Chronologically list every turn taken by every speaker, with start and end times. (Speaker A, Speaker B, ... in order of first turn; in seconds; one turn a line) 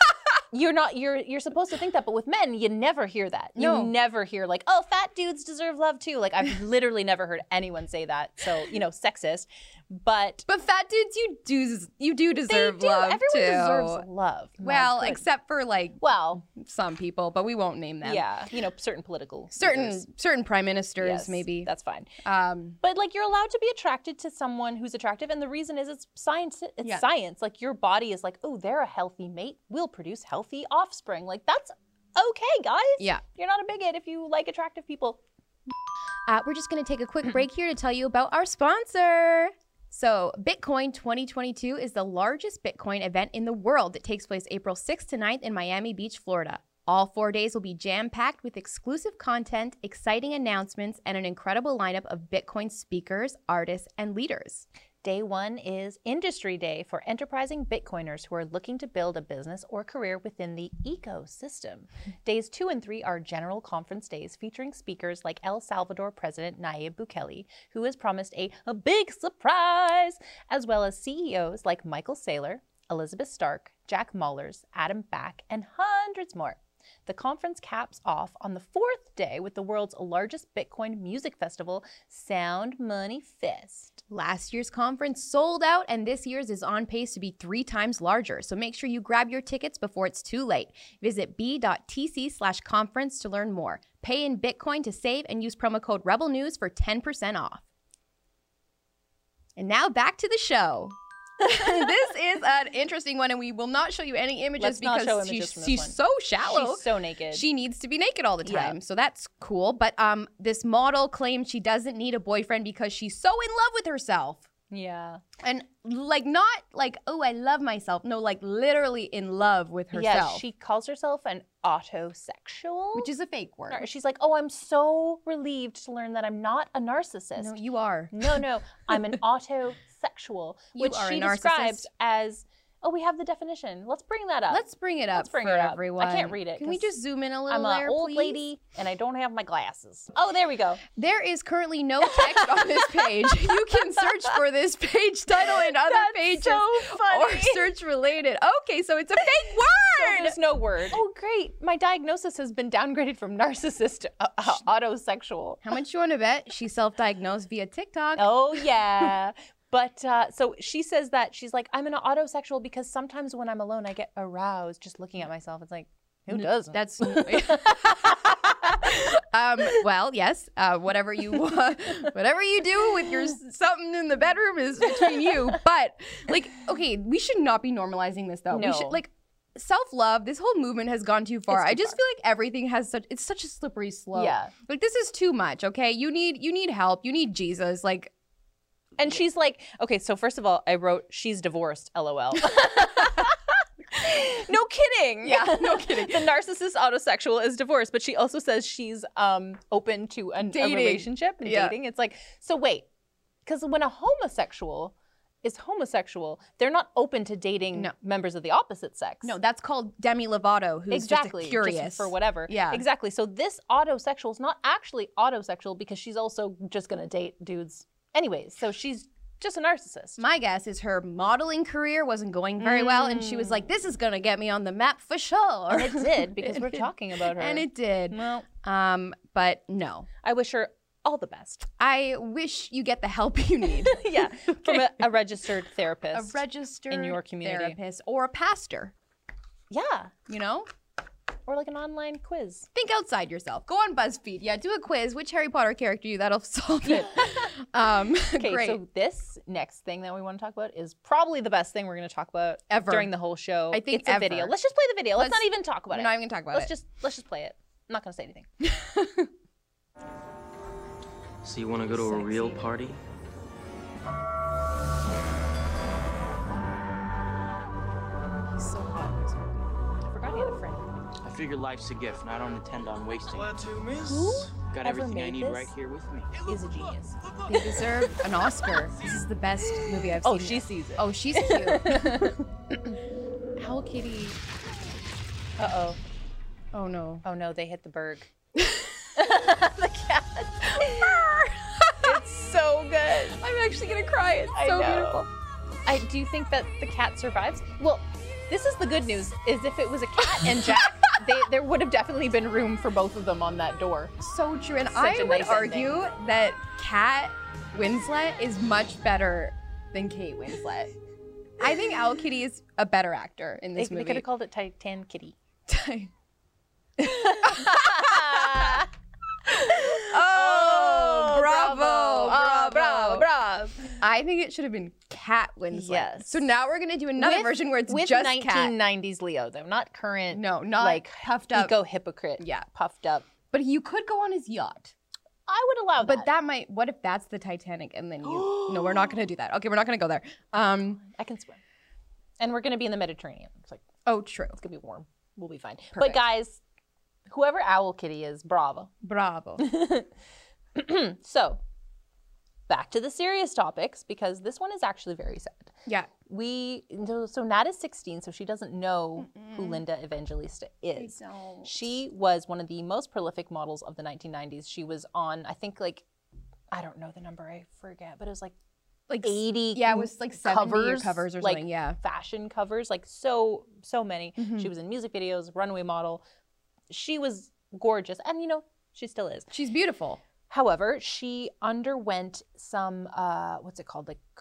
Speaker A: 0.5-10.4
Speaker B: 3.6-3.9
Speaker B: 10.5-14.1
Speaker A: 12.5-15.2
Speaker B: 14.6-18.3
Speaker A: 16.0-16.4
Speaker A: 18.0-20.0
Speaker B: 19.5-21.7
Speaker A: 21.0-22.1
Speaker B: 22.2-22.8
Speaker A: 22.8-35.2
Speaker B: 36.3-54.7
Speaker A: 55.0-84.0
Speaker B: 84.1-97.6
Speaker B: 99.6-114.5
Speaker A: 104.6-107.5
Speaker A: 108.5-108.8
Speaker A: 114.7-115.2
Speaker B: 115.4-120.4
Speaker A: 119.9-123.1
Speaker B: 123.0-123.9
Speaker A: 123.7-127.6
Speaker B: 127.4-128.4
Speaker A: 128.1-136.9
Speaker B: 130.8-131.9
Speaker B: 134.5-138.4
Speaker A: 137.5-140.8
Speaker B: 141.0-150.4
Speaker A: 142.1-144.3
Speaker A: 145.4-147.7
Speaker A: 150.0-155.7
Speaker B: 155.6-158.6
Speaker A: 158.2-169.0
Speaker B: 166.3-188.1
Speaker A: 174.9-175.5
Speaker A: 178.5-179.0
Speaker A: 181.5-182.0
Speaker A: 184.1-184.5
Speaker A: 189.0-202.9
Speaker B: 195.2-196.3
Speaker B: 200.4-201.8
Speaker A: 203.4-209.3
Speaker B: 209.2-212.8
Speaker A: 210.9-220.2
Speaker B: 220.2-230.1
Speaker A: 222.6-223.7
Speaker A: 225.7-228.5
Speaker A: 230.2-231.7
Speaker B: 231.8-235.0
Speaker A: 233.7-237.8
Speaker B: 236.1-238.9
Speaker A: 239.7-240.1
Speaker B: 240.3-240.7
Speaker A: 241.5-242.7
Speaker B: 242.8-248.8
Speaker A: 246.9-247.4
Speaker A: 248.4-258.5
Speaker B: 252.7-253.1
Speaker B: 253.7-254.5
Speaker B: 255.2-256.7
Speaker B: 258.6-259.3
Speaker C: 261.4-263.0
Speaker B: 261.9-262.6
Speaker A: 262.1-262.5
Speaker B: 268.5-269.7
Speaker A: 270.0-271.0
Speaker C: 271.2-276.4
Speaker A: 273.9-275.7
Speaker A: 276.4-277.2
Speaker B: 277.5-282.4
Speaker A: 280.1-282.9
Speaker B: 283.6-284.4
Speaker A: 285.6-286.0
Speaker B: 286.7-287.2
Speaker A: 287.2-288.3
Speaker B: 288.6-289.1
Speaker A: 289.2-291.2
Speaker B: 290.7-292.2
Speaker A: 292.0-293.4
Speaker B: 293.4-295.3
Speaker A: 294.5-295.3
Speaker A: 295.9-304.1
Speaker B: 300.2-301.2
Speaker B: 304.2-310.9
Speaker A: 304.9-306.0
Speaker B: 311.6-314.2
Speaker A: 313.8-315.4
Speaker B: 315.7-316.1
Speaker A: 317.0-318.9
Speaker B: 317.1-318.9
Speaker B: 319.5-323.3
Speaker A: 319.7-324.0
Speaker B: 324.0-328.8
Speaker A: 325.7-326.5
Speaker A: 327.2-333.3
Speaker B: 330.3-331.8
Speaker B: 332.4-332.7
Speaker B: 333.5-334.9
Speaker A: 335.5-336.3
Speaker B: 336.0-341.0
Speaker A: 338.2-339.2
Speaker A: 341.0-341.6
Speaker A: 342.4-343.9
Speaker B: 344.1-344.6
Speaker A: 344.6-346.6
Speaker B: 345.9-346.2
Speaker A: 347.3-348.9
Speaker B: 349.0-349.7
Speaker A: 349.6-350.1
Speaker A: 350.7-351.6
Speaker A: 352.7-366.1
Speaker B: 359.2-359.8
Speaker B: 361.0-362.0
Speaker A: 366.7-368.6
Speaker B: 369.1-372.0
Speaker A: 369.2-376.2
Speaker B: 374.4-374.7
Speaker A: 376.9-379.5
Speaker B: 379.5-380.2
Speaker A: 380.5-384.3